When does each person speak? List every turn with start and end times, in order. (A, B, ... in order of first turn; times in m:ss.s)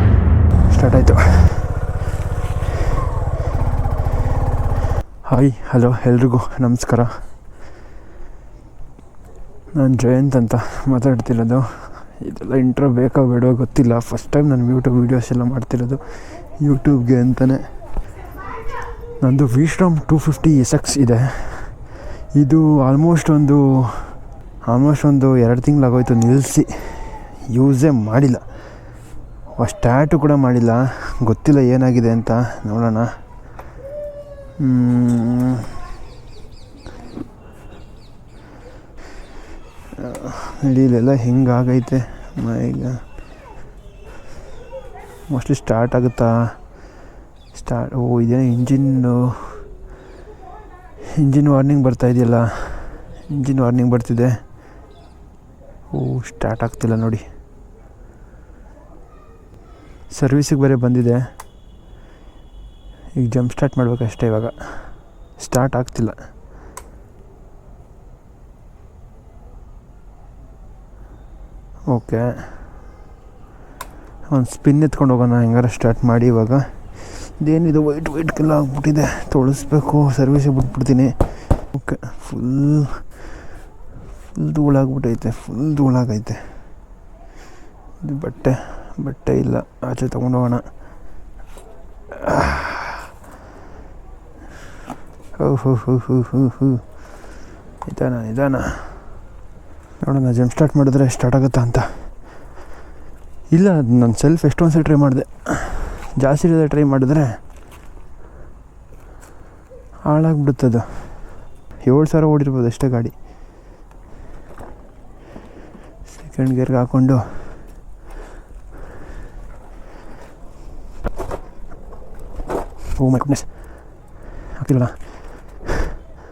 0:00.7-0:01.8 A
0:05.3-0:07.1 A
0:09.8-0:17.6 A
0:19.2-0:21.8 A
0:22.3-0:28.4 A
0:29.6-0:33.1 A
0:34.6-0:35.7 A
0:40.0-0:43.0 A
0:45.3-0:46.6 A
0:47.5-0:49.6 A
0:51.1-0:54.4 A
0:55.9-0:57.2 A
1:00.1-1:01.3 A
1:03.2-1:06.2 A
1:11.9-1:12.6 A
1:14.3-1:23.1 A
1:24.3-1:26.5 A
1:28.0-1:30.7 A
1:32.1-1:33.0 A
1:35.4-1:36.9 A
1:37.9-1:39.1 A
1:40.0-1:42.1 A
1:43.5-1:47.4 A
1:50.1-1:51.2 A
1:51.8-1:53.1 A
1:56.2-1:57.6 A
2:03.0-2:03.9 A
2:04.5-2:05.2 A